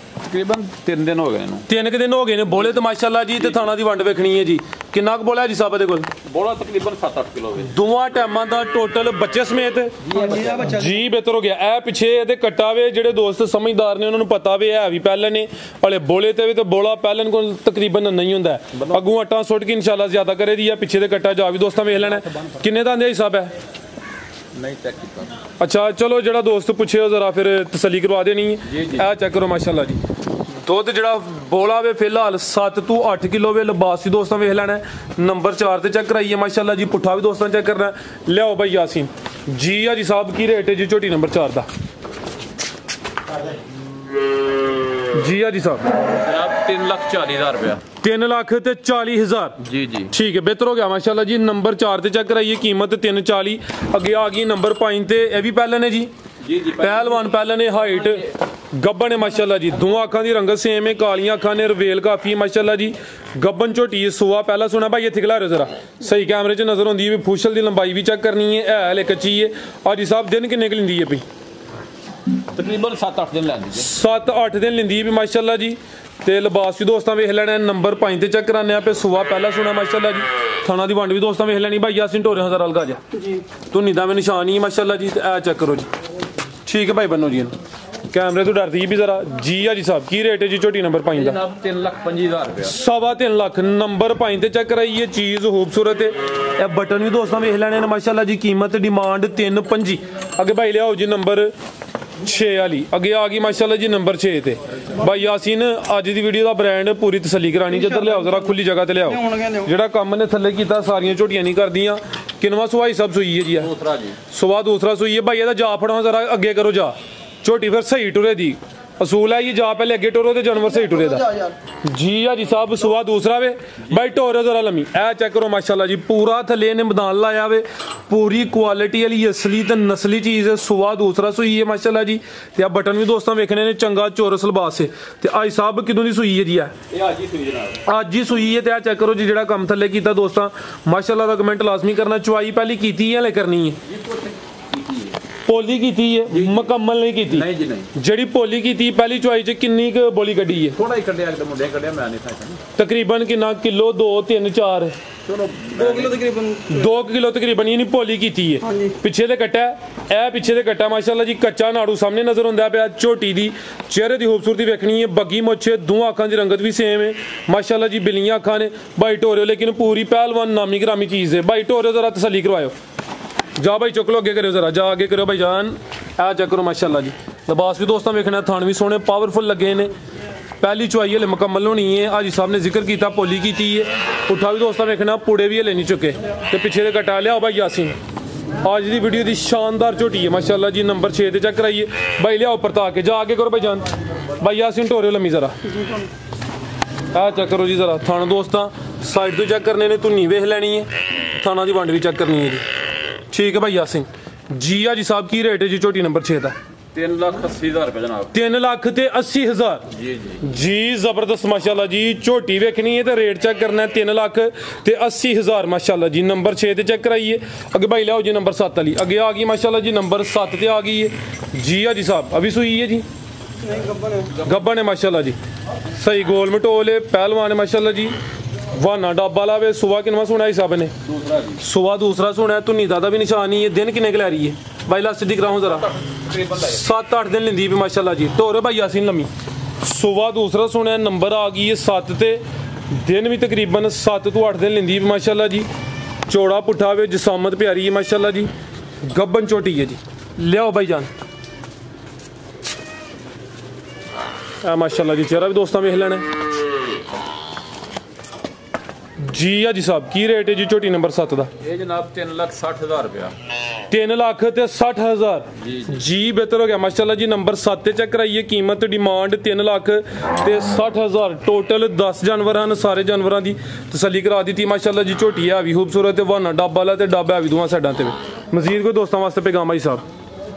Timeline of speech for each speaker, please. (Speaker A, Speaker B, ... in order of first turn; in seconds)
Speaker A: 0.2-1.7, 3.4-3.7, 6.2-7.8, 10.0-10.7, 18.7-19.1, 21.9-22.6, 24.5-25.4, 28.7-29.1, 46.1-47.8, 49.6-50.1, 56.4-57.3, 57.8-58.3, 72.5-73.9, 91.1-92.8, 113.6-114.2, 123.8-124.2, 136.9-137.8, 143.8-145.2, 146.3-146.7, 147.3-147.9, 150.7-152.6, 155.2-156.2, 206.9-208.3, 209.9-210.4, 224.3-224.7, 231.0-231.6, 235.4-236.8, 261.6-263.3, 265.6-266.0
Speaker B: 1.7-6.1, 7.6-10.0, 10.6-23.5, 25.6-30.0, 30.6-41.7, 45.1-45.9, 48.0-49.6, 50.1-56.1, 56.8-71.2, 73.7-83.0, 83.7-85.9, 86.7-87.5, 88.1-91.4, 92.6-101.5, 102.2-113.7, 114.3-121.2, 121.8-136.8, 137.8-143.8, 145.4-150.8, 152.8-154.9, 156.7-172.8, 173.6-179.9, 180.6-187.9, 188.6-195.6, 197.1-202.7, 203.3-206.6, 208.3-209.8, 210.4-223.1, 224.4-225.4, 225.9-228.2, 228.7-230.9, 231.6-235.9, 236.6-239.3, 239.8-245.7, 246.3-248.5, 249.0-251.1, 254.6-256.2, 259.2-261.5, 263.9-280.0
Speaker C: 10.1-11.0, 83.1-83.5, 107.7-109.7, 120.6-121.6, 155.7-156.9, 158.6-159.0, 195.6-196.1, 223.6-224.4